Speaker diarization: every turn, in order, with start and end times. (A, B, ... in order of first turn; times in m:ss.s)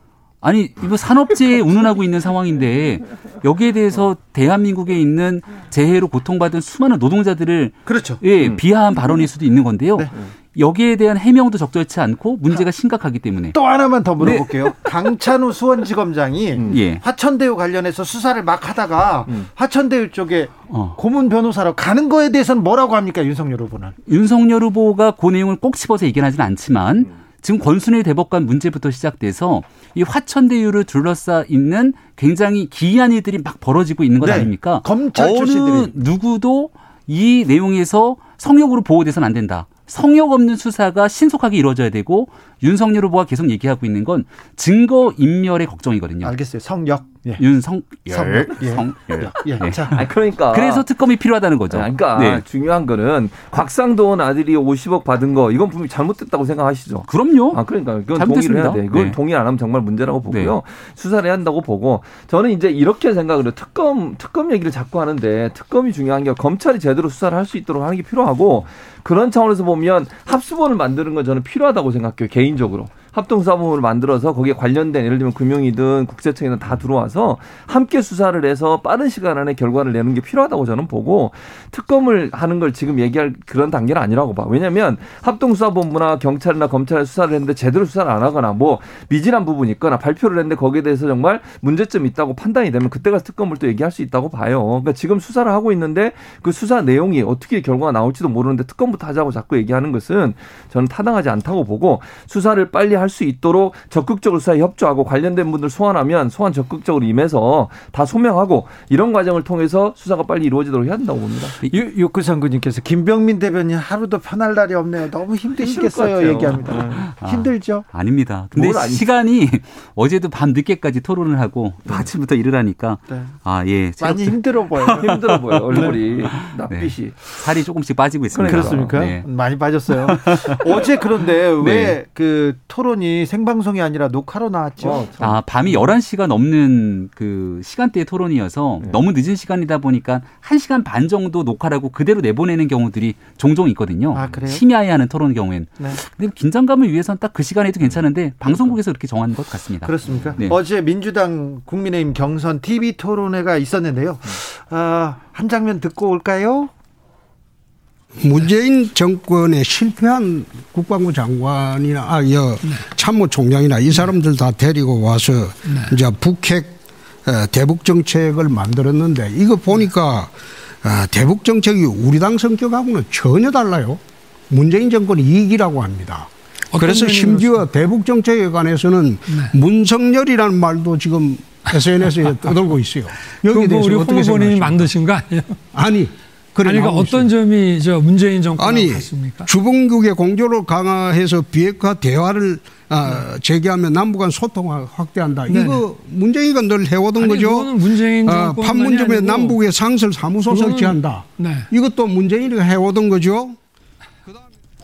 0:00.4-0:13.6 A
0:07.9-0:08.2 B
0:13.5-0:24.0 B
0:16.7-0:17.0 A
0:20.7-0:21.0 A
0:24.1-0:46.4 A
0:34.2-0:36.0 B
0:46.2-0:47.4 B
0:47.4-0:52.4 A
0:48.1-0:50.0 B
0:49.9-0:50.8 C
0:51.7-1:51.6 C
0:57.1-0:57.6 A
0:58.1-0:59.2 A
1:00.3-1:00.6 A
1:51.6-1:57.8 B
1:55.6-1:57.0 C
1:56.7-2:06.0 A
1:58.5-1:59.0 C
2:03.1-2:03.3 B
2:04.0-2:05.2 B
2:04.9-2:07.2 C
2:06.7-2:09.3 A
2:08.3-2:09.1 C
2:08.4-2:15.1 B
2:10.1-2:10.7 A
2:11.6-2:12.0 C
2:14.8-2:15.9 C
2:15.2-2:30.6 A
2:24.1-2:24.6 B
2:29.8-2:36.7 B
2:30.1-2:30.4 C
2:38.2-3:04.9 D
2:45.7-2:46.0 E
2:56.7-2:57.7 E
2:59.3-2:59.5 E
3:01.7-3:02.6 E
3:03.5-3:05.6 E
3:05.7-3:07.3 D
3:06.6-3:09.5 E
3:08.6-3:23.6 D
3:15.5-3:15.8 E
3:17.2-3:19.6 E
3:20.5-3:21.7 E